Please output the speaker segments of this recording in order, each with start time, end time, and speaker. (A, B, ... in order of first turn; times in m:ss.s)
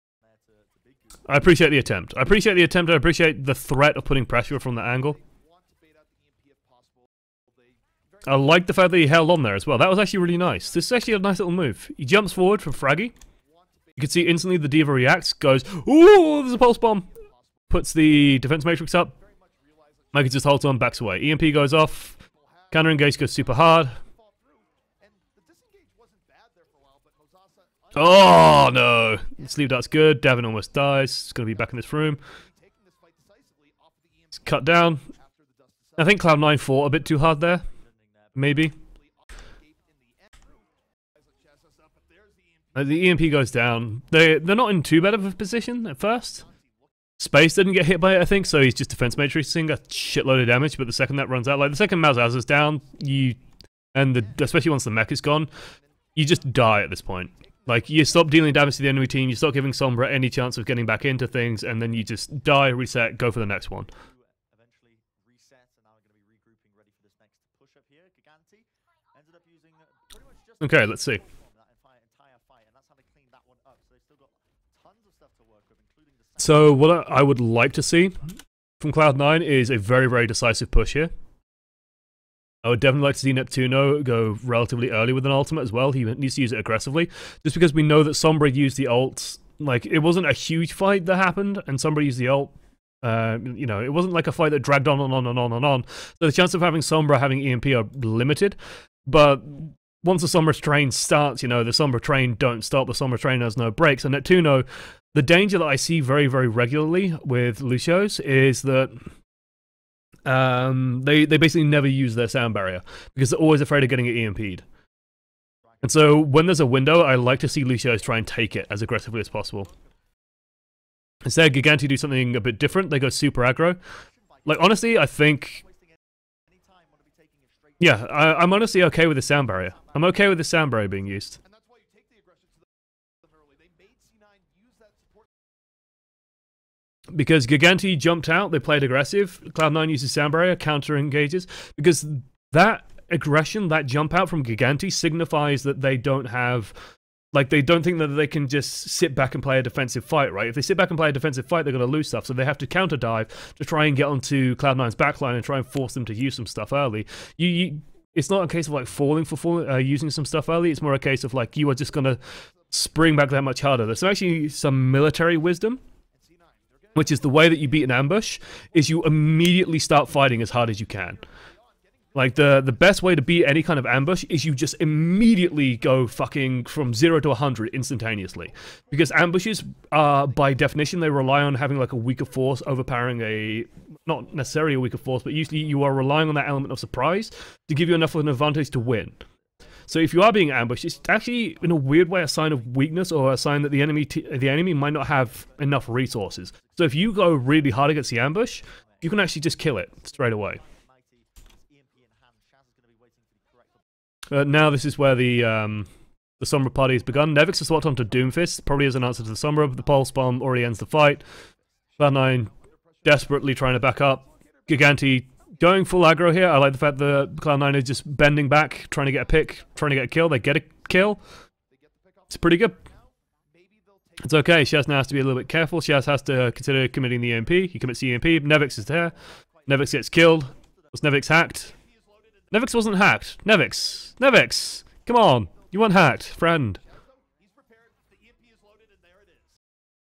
0:00.2-0:01.4 A
0:01.3-0:05.2 B
0:04.8-0:08.7 C
0:08.2-0:13.2 B
0:13.4-0:14.7 C
0:14.0-0:17.1 B
0:17.1-0:17.8 C
0:17.7-0:19.2 B
0:19.2-0:20.5 C
0:20.1-0:22.2 B
0:22.3-0:29.4 C
0:22.7-0:24.0 B
0:27.9-0:32.2 B
0:31.6-0:36.7 C
0:34.4-0:35.0 B
0:36.0-0:37.7 B
0:37.6-0:38.6 A
0:38.4-0:38.8 B
0:39.0-0:43.2 C
0:42.8-0:46.4 B
0:46.4-0:46.9 C
0:47.2-0:53.4 B
0:54.0-0:55.5 B
0:56.2-0:56.5 C
0:56.2-1:03.9 B
0:57.7-0:58.3 C
1:03.9-1:16.9 A
1:10.6-1:11.2 B
1:16.4-1:18.3 B
1:18.8-1:21.1 B
1:22.6-1:49.1 B
1:50.3-1:54.7 B
1:55.7-1:56.1 A
1:55.8-1:59.7 B
1:59.4-1:59.8 A
2:01.2-2:03.8 B
2:04.0-2:08.5 A
2:04.4-2:05.6 B
2:07.8-2:11.4 B
2:09.5-2:10.2 A
2:11.4-2:15.5 C
2:17.1-2:45.8 B
2:46.1-2:48.1 C
2:47.0-2:51.2 B
2:50.4-2:52.8 C
2:52.2-3:09.2 B
3:09.9-3:20.6 B
3:16.3-3:17.4 A
3:18.7-3:19.3 A
3:19.9-3:23.9 A
3:24.3-3:31.2 B
3:29.4-3:29.8 A
3:32.0-3:32.5 B
3:32.5-3:33.6 C
3:33.0-3:41.2 B
3:34.2-3:35.0 C
3:41.7-3:45.1 C
3:42.3-3:42.8 B
3:44.2-3:49.2 B
3:48.6-3:51.0 A
3:49.7-3:51.7 B
3:51.6-3:52.8 C
3:52.5-3:56.8 B
3:56.9-3:59.6 C